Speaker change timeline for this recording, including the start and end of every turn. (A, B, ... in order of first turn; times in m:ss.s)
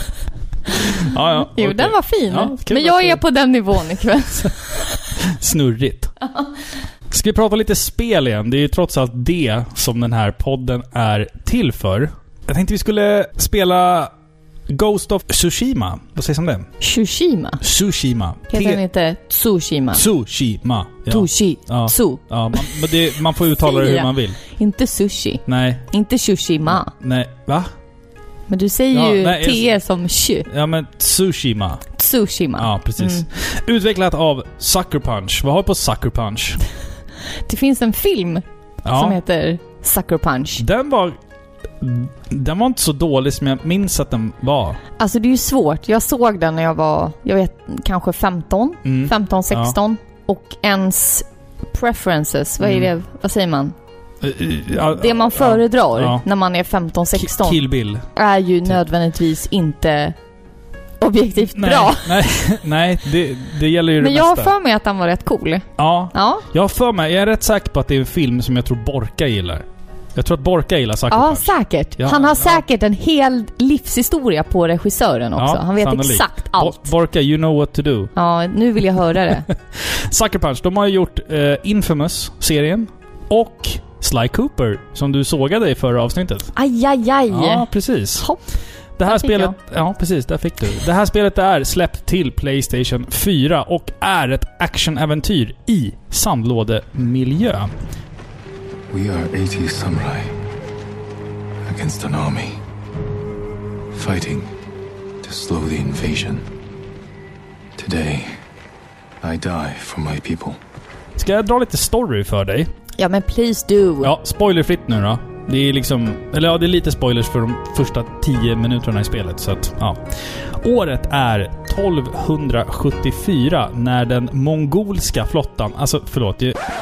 0:00.8-0:03.2 A
0:01.4-0:05.0 B
0:05.2-0:06.1 A
0:07.1-0:14.1 A
0:14.7-0:16.7 A
0:16.8-0:17.6 B
0:17.6-0:18.8 A
0:18.5-0:20.0 B
0:19.9-0:24.4 A
0:21.1-0:22.9 B
0:23.5-0:26.9 B
0:25.4-0:25.9 A
0:26.7-0:27.7 A
0:28.5-0:30.5 B
0:28.9-0:29.7 A
0:30.5-0:31.8 A
0:32.0-0:33.2 B
0:32.6-0:36.6 A
0:37.4-0:40.6 B
0:38.8-0:39.2 A
0:40.6-0:41.2 A
0:41.8-0:44.8 A
0:45.0-0:53.7 B
0:48.8-0:49.8 A
0:52.6-0:52.9 A
0:54.2-0:56.2 A
0:54.7-0:57.6 B
0:57.1-0:58.0 A
0:58.1-1:00.2 B
1:01.0-1:02.3 B
1:01.5-1:04.5 A
1:04.0-1:06.4 B
1:05.8-1:12.6 A
1:11.1-1:16.9 B
1:15.4-1:18.1 A
1:18.2-1:19.4 B
1:19.5-1:26.5 A
1:26.6-1:28.4 B
1:27.3-1:28.3 A
1:29.0-1:37.7 A
1:29.0-1:29.5 B
1:38.9-1:40.3 C
1:41.6-1:42.6 C
1:43.9-1:44.5 C
1:45.2-1:46.4 C
1:47.8-1:48.4 C
1:49.2-1:50.6 C
1:51.2-1:52.7 A
1:53.0-1:54.1 B
1:54.0-2:00.0 A
2:00.6-2:06.6 A